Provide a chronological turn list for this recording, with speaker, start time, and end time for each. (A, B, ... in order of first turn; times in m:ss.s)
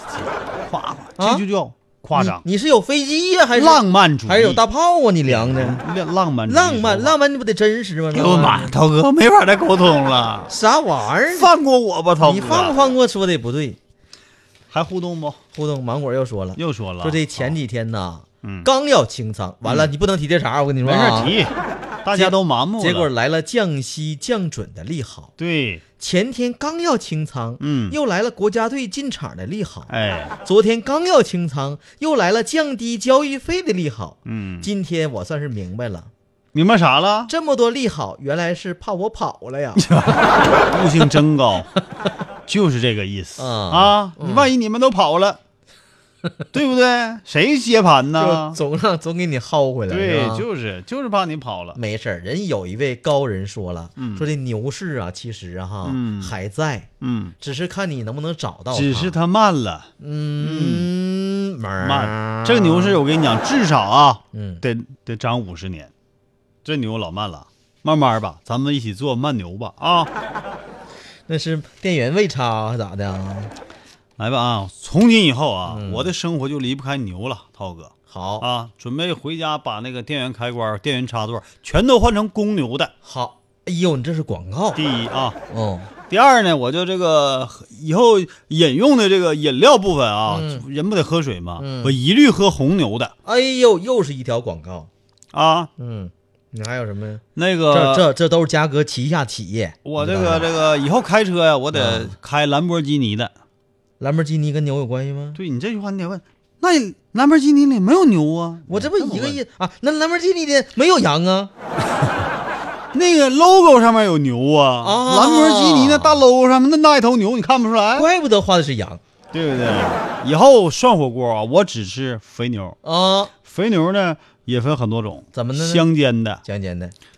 0:00.1-0:02.4 A
0:01.2-0:01.4 B
0:02.2-0:05.8 B
0:03.5-0:04.6 A
0:05.2-0:07.2 A
0:06.5-0:08.8 B
0:08.1-0:10.5 A
0:10.5-0:11.5 B
0:11.3-0:12.8 A
0:12.2-0:13.8 B
0:14.7-0:15.4 A
0:15.5-0:21.3 B
0:16.6-0:17.6 A
0:18.4-0:18.7 A
0:19.6-0:19.9 A
0:20.8-0:23.1 A
0:22.1-0:25.3 B
0:25.4-0:25.8 A
0:26.0-0:29.9 B
0:27.6-0:28.0 A
0:29.9-0:30.3 A
0:30.4-0:36.1 B
0:34.3-0:34.7 A
0:36.5-0:37.3 A
0:37.3-0:39.9 B
0:39.8-0:41.7 A
0:42.5-0:45.4 A
0:43.4-0:44.5 B
0:46.5-0:48.6 A
0:48.2-0:50.4 B
0:49.9-0:51.8 A
0:51.8-0:56.9 B
0:54.0-0:54.3 A
0:55.8-0:56.3 A
0:57.0-0:57.4 A
0:57.4-0:59.2 B
0:58.7-1:00.9 A
1:00.0-1:03.0 B
1:01.8-1:05.9 A
1:04.3-1:04.6 B
1:06.6-1:10.1 A
1:11.3-1:13.5 B
1:14.2-1:22.9 A
1:15.7-1:16.1 B
1:18.1-1:18.5 B
1:23.0-1:24.8 B
1:24.8-1:25.4 A
1:25.5-1:25.9 B
1:26.1-1:33.1 A
1:30.3-1:30.6 B
1:31.6-1:32.0 B
1:33.2-1:34.9 B
1:35.3-1:35.7 A
1:35.8-1:40.5 B
1:37.4-1:38.1 A
1:39.8-1:43.3 A
1:41.7-1:42.1 B
1:44.0-1:45.4 B
1:45.4-1:49.4 A
1:48.7-1:51.5 B
1:52.9-1:58.1 A
1:54.8-1:56.2 B
1:58.0-1:59.0 B
1:59.3-2:02.8 A
2:02.8-2:03.3 B
2:03.4-2:06.4 A
2:05.3-2:05.9 B
2:06.4-2:06.9 B